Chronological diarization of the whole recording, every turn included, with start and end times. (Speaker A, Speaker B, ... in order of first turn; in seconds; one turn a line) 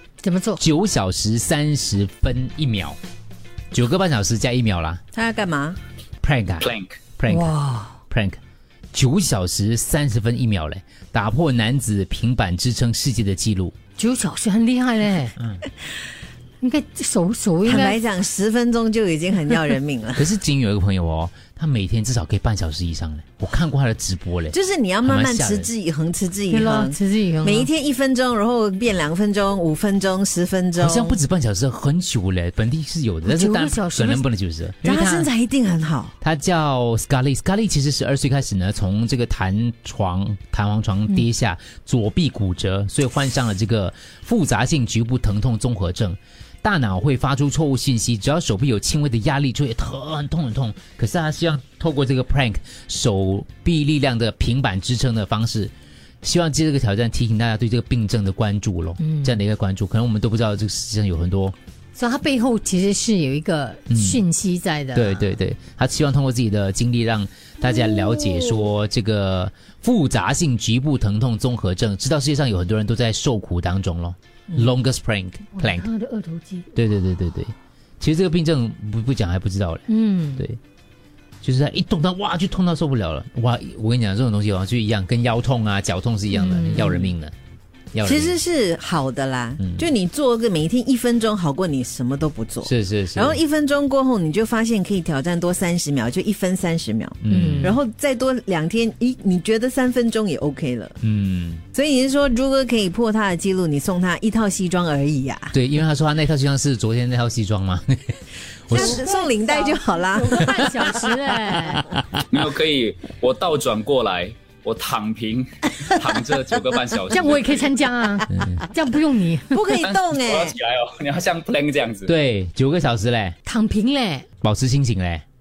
Speaker A: 0.2-0.6
Speaker B: 0.6-3.0
Speaker B: 3.7-5.0
Speaker C: 5.1-5.8
Speaker B: 6.2-7.5
Speaker D: 6.6-7.0
Speaker A: 7.3-8.0
Speaker B: 8.1-8.4
Speaker B: 8.9-13.7
Speaker A: 14.0-15.3
Speaker A: 16.6-18.0
Speaker C: 17.6-20.2
Speaker B: 20.1-25.7
Speaker C: 24.5-31.2
Speaker A: 26.5-27.7
Speaker B: 30.8-34.8
Speaker A: 33.2-34.2
Speaker A: 34.8-35.3
Speaker C: 34.8-36.1
Speaker B: 36.2-61.5
Speaker A: 59.0-59.3
Speaker A: 62.0-65.3
Speaker B: 63.9-64.2
Speaker B: 64.9-75.9
Speaker A: 75.5-76.7
Speaker B: 76.7-80.6
Speaker A: 79.9-80.4
Speaker B: 81.4-87.3
Speaker A: 86.3-87.1
Speaker B: 87.9-88.4
Speaker C: 88.0-101.0
Speaker B: 92.6-93.4
Speaker B: 97.2-97.7
Speaker A: 97.3-97.7
Speaker B: 101.0-101.6
Speaker C: 101.7-105.5
Speaker B: 105.5-108.9
Speaker C: 108.7-110.9
Speaker A: 108.7-111.9
Speaker D: 112.2-118.2
Speaker A: 117.1-119.7
Speaker B: 118.3-118.6
Speaker C: 119.5-120.6
Speaker D: 119.7-122.1
Speaker B: 122.1-123.3
Speaker A: 123.5-124.2
Speaker B: 124.4-125.2